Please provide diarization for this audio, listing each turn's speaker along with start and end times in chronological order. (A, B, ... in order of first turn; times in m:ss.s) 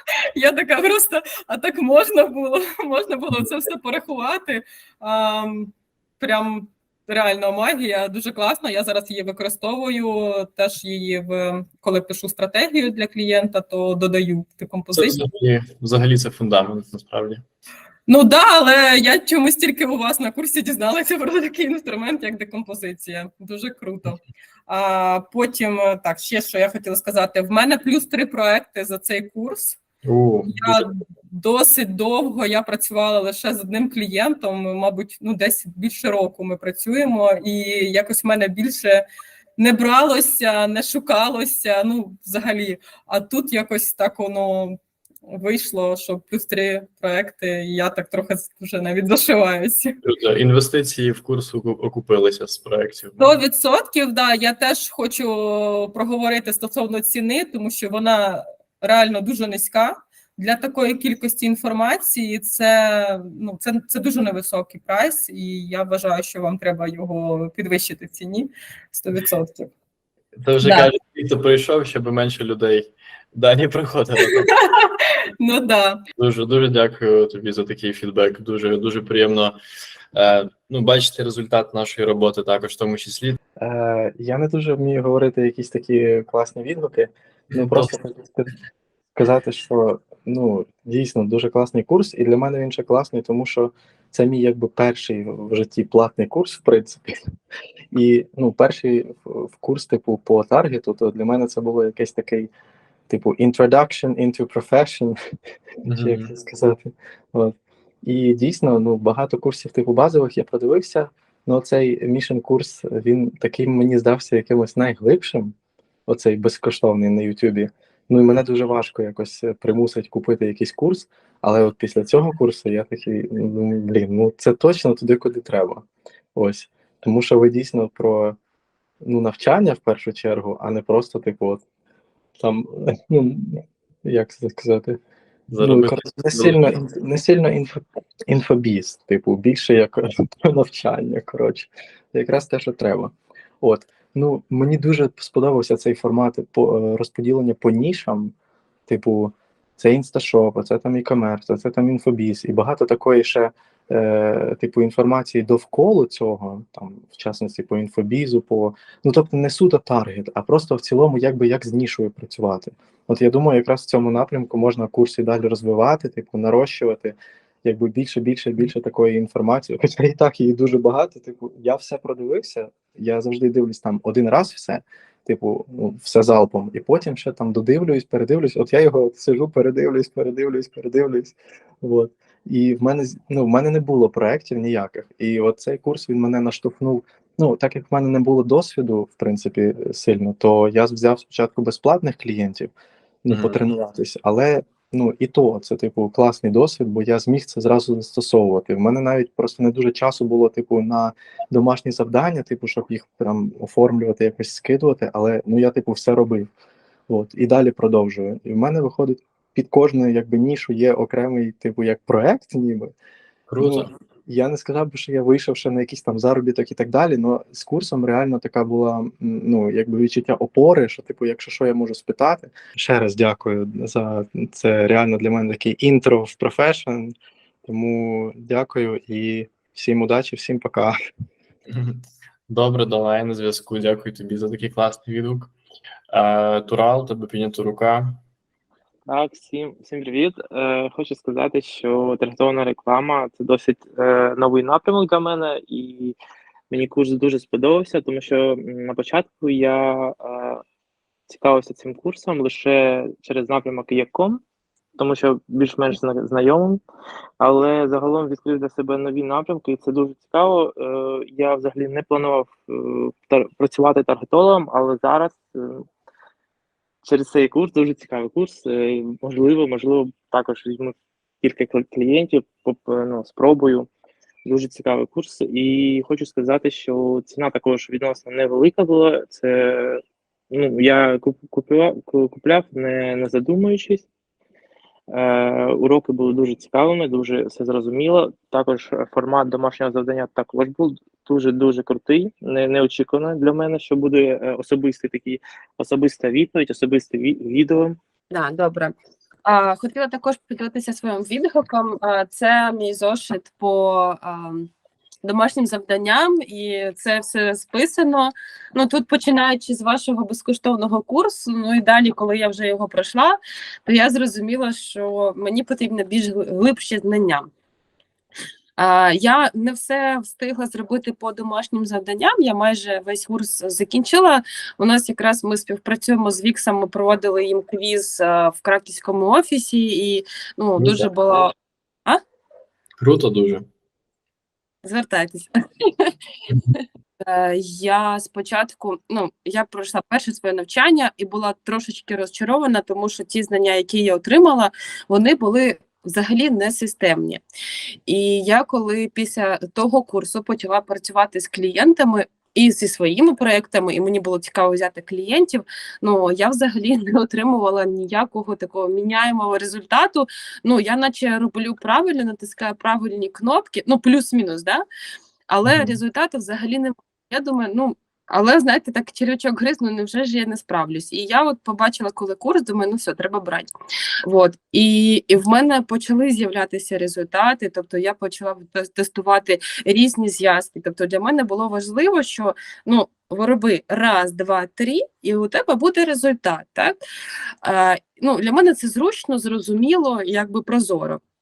0:00.4-0:15.3 A
0:14.9-0:17.4 B
0:18.1-0:29.8 A
0:30.0-0:30.8 B
0:30.6-0:39.0 A
0:39.6-0:50.0 A
0:50.0-0:53.4 B
0:53.2-1:09.7 A
1:10.4-1:14.6 B
1:10.6-1:10.9 A
1:14.8-1:16.0 A
1:16.2-1:19.6 B
1:20.2-1:23.4 B
1:23.6-1:28.5 C
1:27.5-1:27.9 B
1:29.2-1:37.2 C
1:37.9-1:42.5 C
1:43.1-1:45.2 C
1:45.8-1:46.3 B
1:45.9-1:55.5 C
1:56.1-2:08.4 C
2:09.0-2:11.6 C
2:12.4-2:15.0 C
2:15.5-2:16.6 B
2:15.6-2:28.3 C
2:28.9-3:12.7 C
3:13.2-3:26.5 C
3:13.3-3:13.6 B
3:27.1-3:32.9 C
3:33.5-3:33.9 B
3:33.6-3:47.1 C
3:47.7-3:51.0 C
3:51.7-3:55.5 B
3:56.1-3:58.2 B
3:59.1-4:06.2 D
4:06.7-4:10.4 D
4:11.4-4:14.4 D
4:15.0-4:16.8 D
4:17.4-4:22.6 D
4:23.3-4:25.4 D
4:27.2-4:30.9 D
4:31.5-4:33.8 D
4:34.5-4:39.7 D
4:40.6-4:44.0 D
4:45.2-4:55.4 D
4:55.9-4:57.9 D
4:58.3-4:58.9 E
4:59.4-5:04.7 E
5:05.2-5:17.5 E
5:18.8-5:31.5 E
5:30.8-5:31.4 B
5:33.0-5:33.7 B
5:34.8-5:36.1 E
5:37.2-5:47.4 E
5:48.1-6:04.8 E
6:05.5-6:13.7 E
6:05.7-6:06.0 B
6:14.3-6:27.0 E
6:27.6-6:31.2 E